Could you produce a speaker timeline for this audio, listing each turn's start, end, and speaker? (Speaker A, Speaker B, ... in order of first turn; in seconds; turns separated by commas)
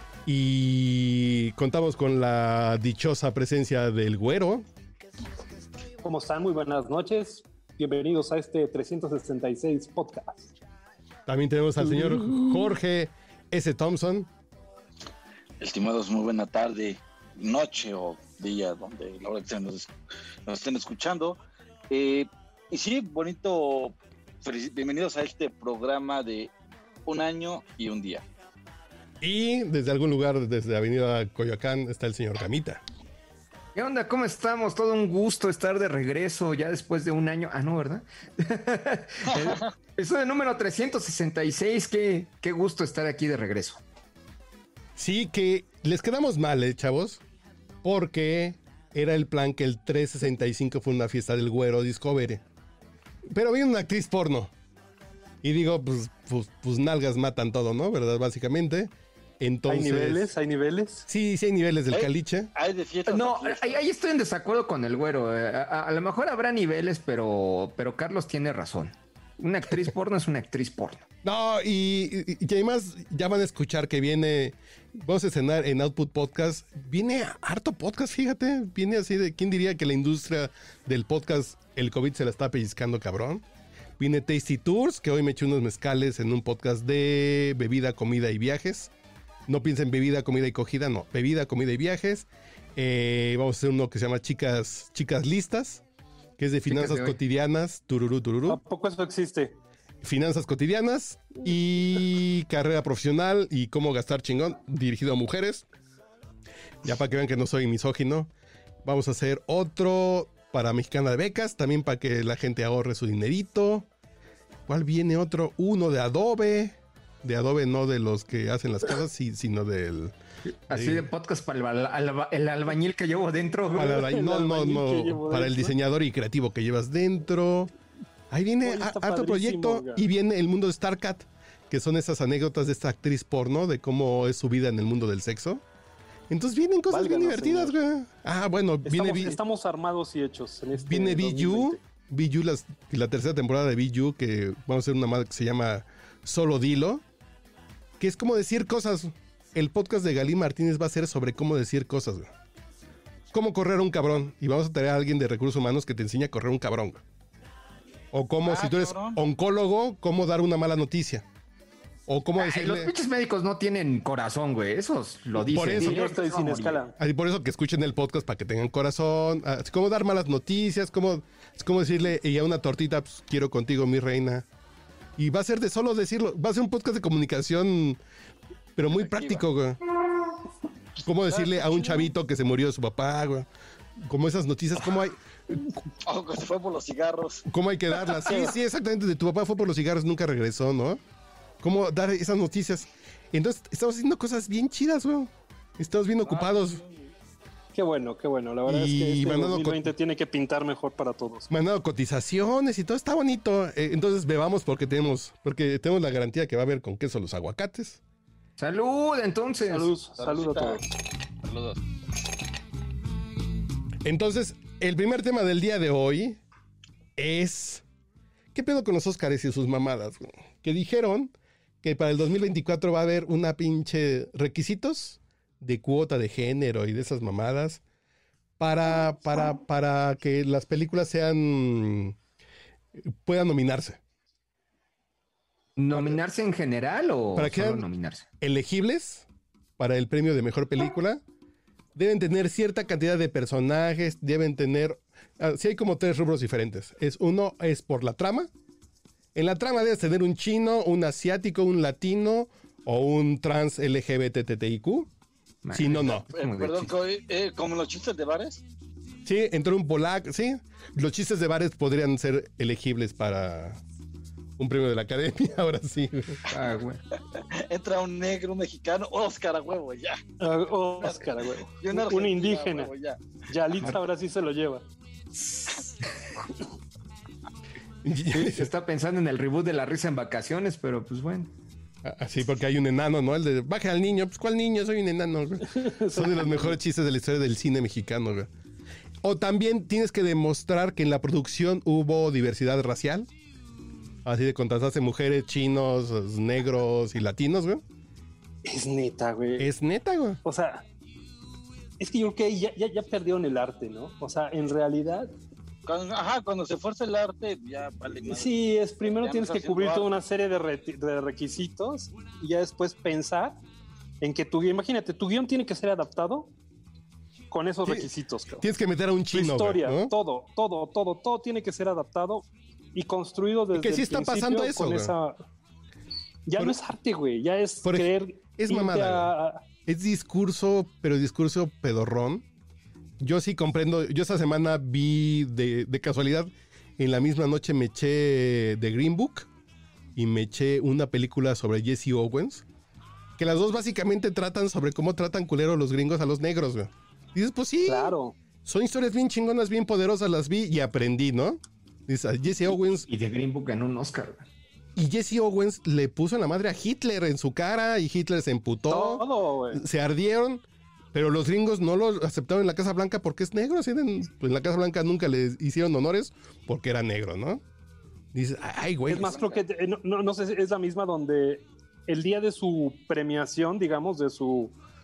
Speaker A: 0.2-4.7, Speaker B: 6.0-10.5, Speaker A: 11.3-14.3, Speaker B: 11.9-12.7, Speaker C: 15.6-19.9, Speaker C: 20.4-21.4, Speaker C: 21.9-26.5, Speaker C: 27.1-28.2, Speaker A: 29.2-32.8, Speaker D: 33.8-43.8, Speaker A: 45.0-47.2, Speaker A: 47.8-52.4, Speaker A: 53.3-54.5, Speaker A: 55.4-60.3, Speaker B: 59.7-61.1, Speaker A: 61.1-62.5, Speaker C: 61.9-63.8, Speaker D: 63.1-71.0, Speaker A: 71.2-83.4, Speaker A: 84.0-88.9, Speaker A: 89.5-95.8, Speaker A: 96.4-98.6, Speaker D: 96.7-97.2, Speaker B: 98.5-99.6, Speaker A: 100.0-105.7, Speaker A: 106.8-108.3, Speaker A: 108.8-113.9, Speaker A: 114.7-120.1, Speaker D: 120.5-124.0, Speaker A: 120.7-121.1, Speaker B: 123.7-125.8, Speaker A: 123.8-127.7, Speaker A: 128.3-135.6, Speaker B: 128.6-130.1, Speaker A: 136.3-139.4, Speaker B: 136.9-137.8, Speaker B: 138.8-141.8, Speaker A: 140.8-147.0, Speaker A: 148.0-152.3, Speaker A: 153.3-157.0, Speaker A: 158.1-161.2, Speaker C: 158.4-159.2, Speaker A: 162.1-162.9, Speaker D: 162.3-166.8, Speaker A: 165.4-166.1, Speaker B: 165.6-167.0, Speaker A: 167.0-174.4, Speaker A: 175.2-178.0, Speaker A: 178.8-179.8, Speaker C: 178.9-179.4, Speaker A: 181.0-185.7, Speaker C: 186.0-187.4, Speaker A: 187.5-191.0, Speaker C: 188.1-188.4, Speaker A: 191.6-196.8, Speaker C: 196.2-196.9, Speaker B: 197.7-201.5, Speaker A: 198.7-199.9, Speaker A: 201.5-208.0, Speaker D: 208.6-209.9, Speaker B: 209.7-210.8, Speaker C: 210.2-210.8, Speaker C: 211.4-211.8, Speaker A: 214.0-216.4, Speaker A: 217.2-217.8, Speaker A: 218.5-227.8, Speaker A: 228.6-232.2, Speaker A: 233.0-234.0, Speaker D: 235.8-238.2, Speaker A: 235.9-236.2, Speaker A: 237.3-237.9, Speaker A: 238.4-239.2, Speaker A: 239.8-241.2, Speaker A: 241.9-248.5, Speaker A: 249.3-255.1, Speaker D: 255.6-256.9, Speaker A: 255.7-256.2, Speaker C: 256.1-258.6, Speaker A: 259.2-263.8, Speaker A: 264.6-266.5, Speaker D: 266.5-267.0, Speaker C: 267.3-270.2, Speaker B: 270.4-272.9, Speaker C: 271.0-273.2, Speaker B: 273.5-274.8, Speaker A: 278.0-278.7, Speaker D: 278.3-281.5, Speaker A: 282.0-288.5, Speaker B: 285.6-286.8, Speaker A: 289.2-293.3, Speaker A: 294.2-297.8, Speaker B: 298.6-299.7, Speaker A: 299.6-300.4, Speaker B: 300.4-300.8, Speaker B: 302.0-305.3, Speaker C: 305.9-310.1, Speaker B: 308.3-313.6, Speaker B: 314.2-316.5, Speaker B: 317.5-318.6, Speaker A: 318.6-320.1, Speaker B: 319.3-325.4, Speaker A: 323.7-325.1, Speaker B: 326.4-329.6, Speaker A: 327.8-329.3, Speaker A: 329.9-332.4, Speaker A: 333.2-339.5, Speaker A: 340.1-342.6, Speaker A: 343.4-353.1, Speaker B: 347.8-348.3, Speaker D: 353.1-354.4, Speaker A: 354.9-367.6, Speaker B: 358.9-359.8, Speaker A: 368.3-369.4, Speaker B: 369.1-374.8, Speaker C: 369.1-369.6